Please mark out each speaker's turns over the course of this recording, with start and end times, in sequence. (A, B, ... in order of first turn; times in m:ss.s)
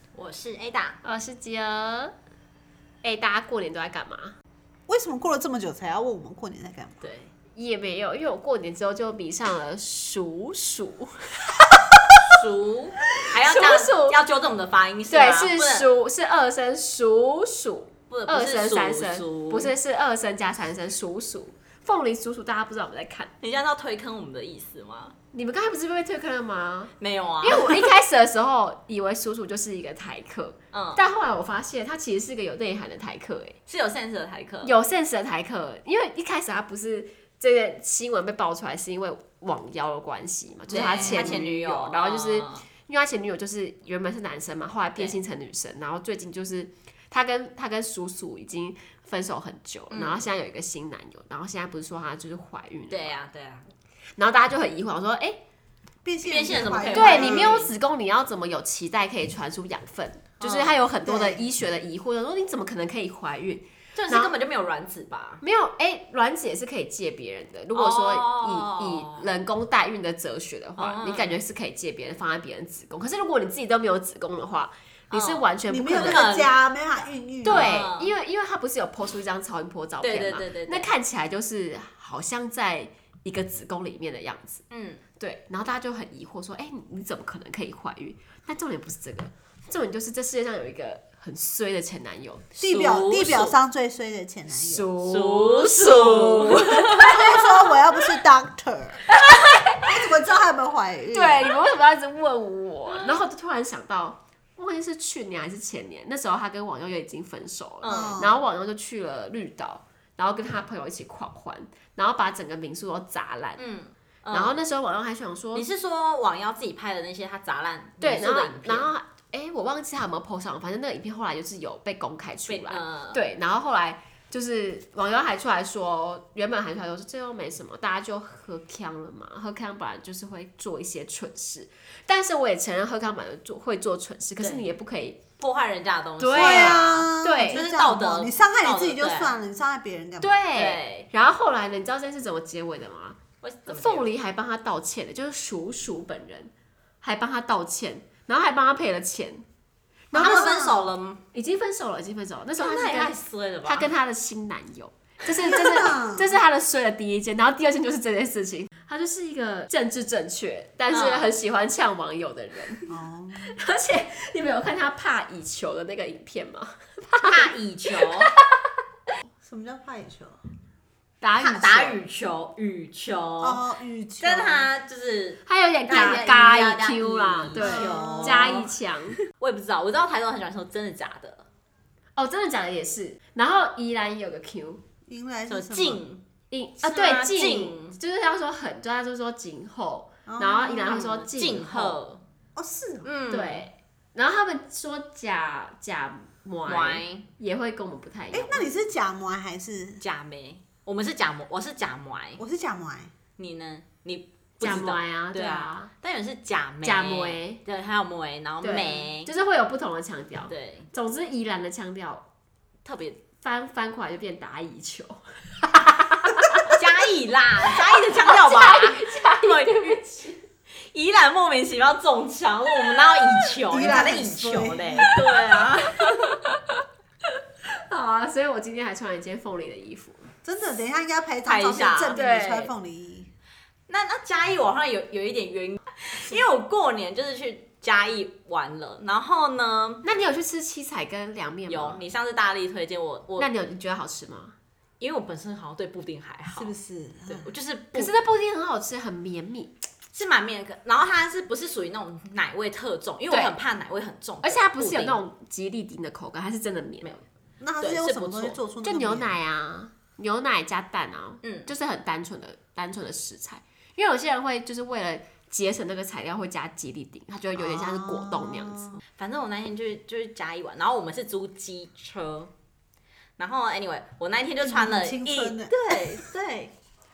0:00.1-0:01.0 A
0:01.0-0:02.1 B
0:03.0-0:04.4 B
0:04.9-0:07.0 C
0:07.0-0:07.3 A
0:07.6-0:11.8 B
0:12.3-0:15.9 A
0:13.4-0:14.2 B
0:15.1-0:23.3 B
0:18.1-0:19.7 A
0:23.4-0:25.1 A
0:25.3-0:33.6 B
0:27.0-0:27.9 A
0:30.7-0:31.0 A
0:33.7-0:34.7 A
0:34.6-0:53.2 B
0:40.7-0:42.6 A
0:40.7-0:41.4 C
0:49.9-0:50.2 A
0:52.9-0:53.6 A
0:54.2-0:55.4 B
0:56.0-0:57.6 C
0:56.2-0:57.7 A
0:56.9-1:04.3 B
1:00.4-1:00.8 A
1:01.0-1:01.4 C
1:03.9-1:05.4 A
1:05.4-1:16.4 B
1:07.7-1:09.3 A
1:10.8-1:11.4 A
1:15.1-1:16.6 A
1:15.7-1:17.8 C
1:17.4-1:18.1 A
1:17.4-1:24.6 B
1:20.0-1:20.9 A
1:24.7-1:25.0 A
1:25.2-1:32.5 B
1:32.6-1:34.9 C
1:32.6-1:33.5 A
1:34.5-1:37.4 B
1:35.0-1:37.2 A
1:37.0-1:39.1 C
1:39.1-1:39.9 B
1:39.8-1:41.5 C
1:41.1-1:53.6 B
1:47.8-1:48.2 A
1:47.9-1:48.4 C
1:53.6-1:54.6 A
1:54.3-1:55.6 B
1:55.5-1:58.9 A
1:58.0-2:15.2 B
2:02.5-2:03.2 A
2:14.4-2:14.7 A
2:15.4-2:19.3 A
2:16.2-2:17.6 B
2:16.3-2:20.4 C
2:20.2-2:26.5 B
2:20.5-2:21.1 A
2:23.4-2:24.0 A
2:27.0-2:29.4 B
2:30.1-2:30.6 B
2:30.1-2:30.8 C
2:30.1-2:31.2 A
2:31.3-2:42.8 B
2:32.6-2:33.9 A
2:35.3-2:36.3 C
2:40.9-2:41.3 A
2:42.9-2:43.6 C
2:43.5-2:48.6 B
2:47.2-2:48.3 A
2:49.4-2:50.4 C
2:51.2-2:52.0 B
2:51.4-2:53.6 A
2:53.4-2:54.7 C
2:54.2-2:58.7 A
2:55.4-2:59.2 B
2:57.6-2:58.6 C
2:59.4-3:01.4 A
3:02.2-3:04.8 B
3:05.0-3:06.0 C
3:05.5-3:06.2 A
3:06.5-3:12.0 B
3:06.8-3:08.0 A
3:10.2-3:11.1 C
3:10.9-3:12.2 A
3:12.6-3:13.1 C
3:13.0-3:13.6 A
3:13.3-3:18.7 B
3:16.6-3:17.2 A
3:18.3-3:20.0 C
3:20.0-3:22.4 A
3:22.4-3:23.1 C
3:23.4-3:29.3 A
3:24.6-3:25.9 B
3:26.8-3:27.6 B
3:28.6-3:32.2 B
3:30.5-3:30.9 A
3:32.8-3:33.2 A
3:33.4-3:36.8 B
3:36.7-3:40.0 A
3:38.1-3:40.4 B
3:40.8-3:46.3 A
3:43.7-3:45.2 C
3:46.0-3:46.8 B
3:47.7-3:50.3 B
3:50.4-3:53.3 C
3:51.4-3:52.2 A
3:52.1-3:52.7 B
3:53.9-4:00.0 A
4:00.0-4:02.0 B
4:01.7-4:03.5 A
4:03.4-4:04.5 B
4:05.0-4:06.7 A
4:06.5-4:07.5 C
4:07.3-4:08.1 A
4:07.9-4:09.7 B
4:10.1-4:15.2 A
4:13.3-4:13.5 B
4:14.4-4:17.2 B
4:17.6-4:19.3 C
4:17.8-4:18.6 A
4:18.8-4:29.0 B
4:21.4-4:21.7 A
4:27.6-4:29.0 C
4:29.1-4:32.5 A
4:33.4-4:36.7 A
4:34.6-4:36.0 C